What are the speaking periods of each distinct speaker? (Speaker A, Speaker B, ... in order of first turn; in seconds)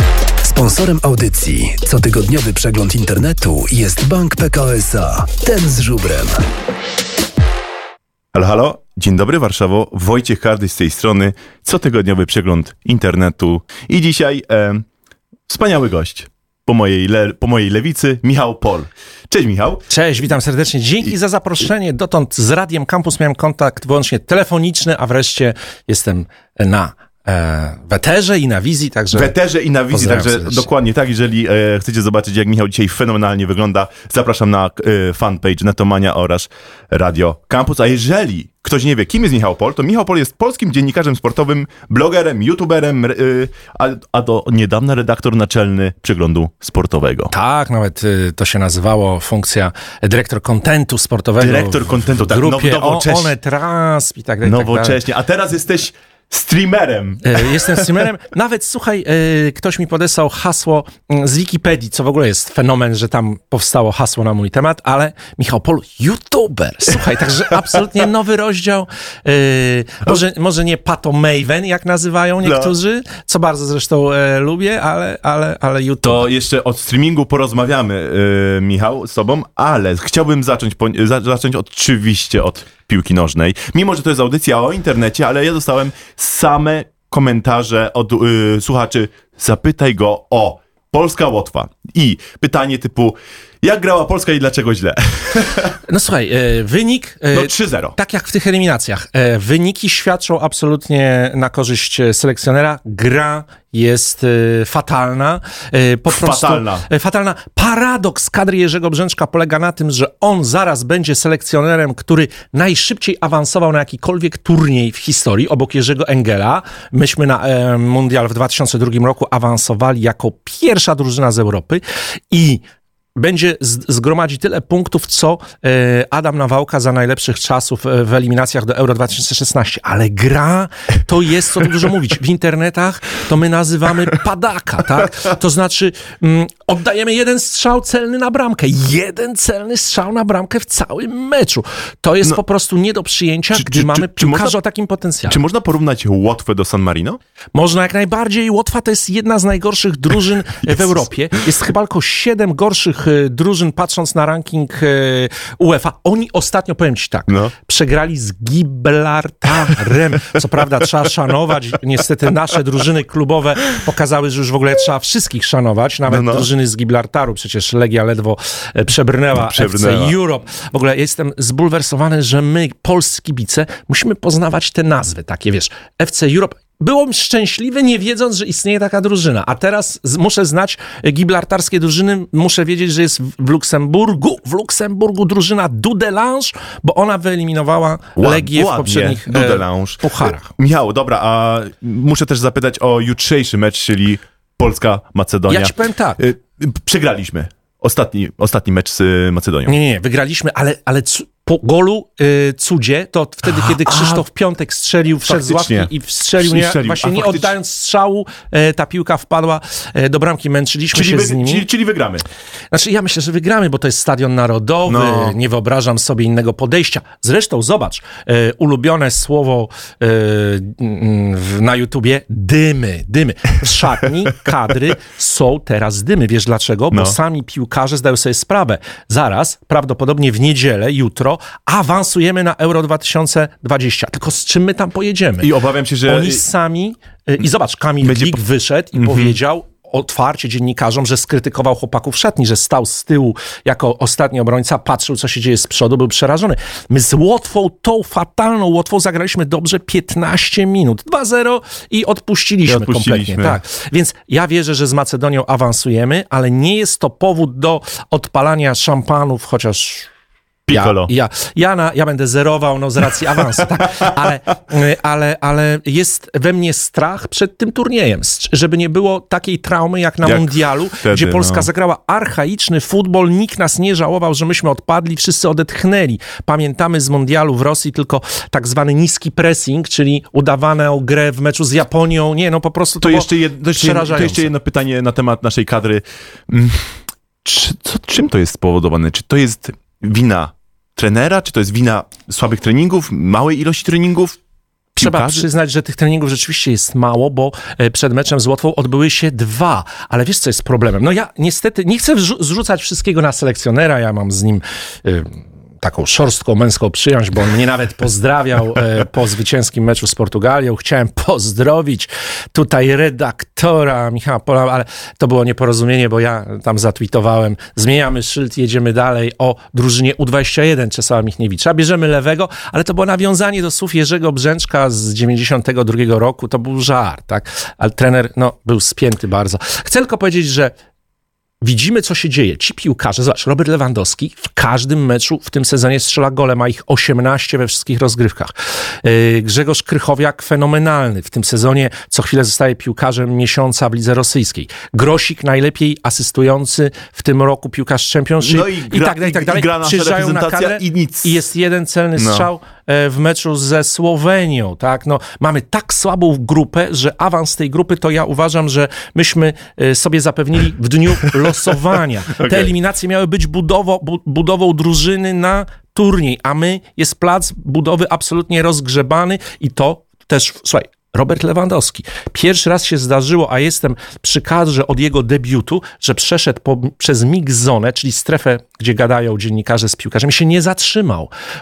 Speaker A: 0.4-6.5
Speaker B: 8.3-14.9, 15.5-19.8, 29.1-47.3, 51.4-53.4, 54.4-58.0, 72.4-72.7, 76.0-95.8, 97.3-98.0, 106.1-106.9, 143.5-144.6, 145.3-147.2, 150.6-151.1, 157.3-157.5, 166.1-166.5, 169.3-170.2, 188.2-199.7, 203.5-204.2, 205.2-207.5, 210.9-212.2, 214.9-215.4, 235.4-236.4, 238.0-238.4, 238.9-239.4, 252.7-253.6, 260.7-261.1, 270.2-271.7, 283.0-294.4, 295.0-295.5, 348.4-351.4, 352.2-352.5, 362.4-362.7
Speaker C: 19.9-29.3, 29.9-30.7, 47.3-55.0, 57.2-76.3, 95.9-122.6, 123.2-145.4, 147.6-190.5, 195.5-196.2, 199.7-211.7, 212.7-235.5, 236.1-260.1, 260.7-284.5, 295.0-330.7, 331.6-381.3